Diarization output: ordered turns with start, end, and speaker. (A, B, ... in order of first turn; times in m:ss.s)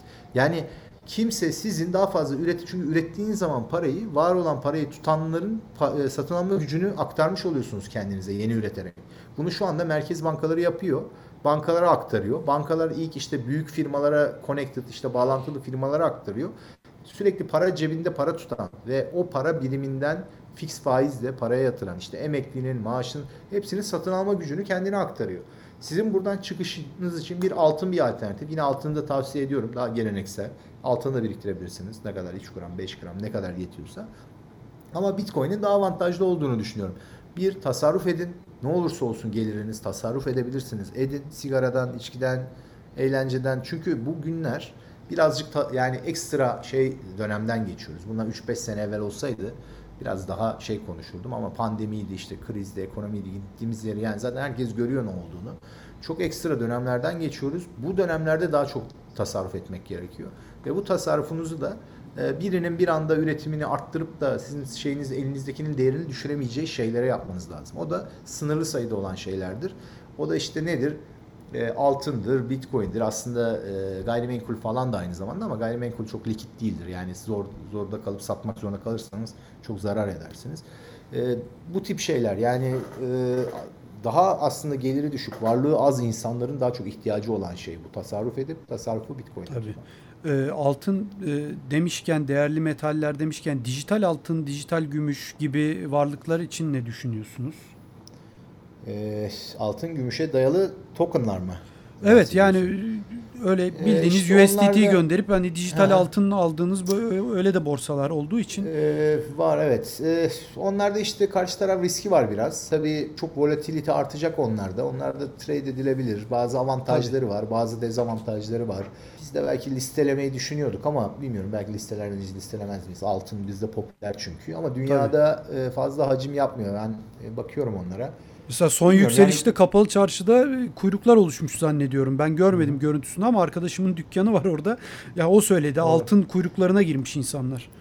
0:00.3-0:16.5 A
0:17.0-0:34.1 A
0:34.9-1:11.0 A
1:11.5-1:29.8 A
1:29.5-1:37.7 B
1:38.8-1:42.7 A
1:42.0-1:48.7 B
1:43.7-1:45.0 A
1:45.7-1:46.1 A
1:48.6-2:08.1 A
2:04.9-2:05.1 B
2:08.5-2:17.7 B
2:08.8-2:09.5 A
2:15.8-2:16.1 A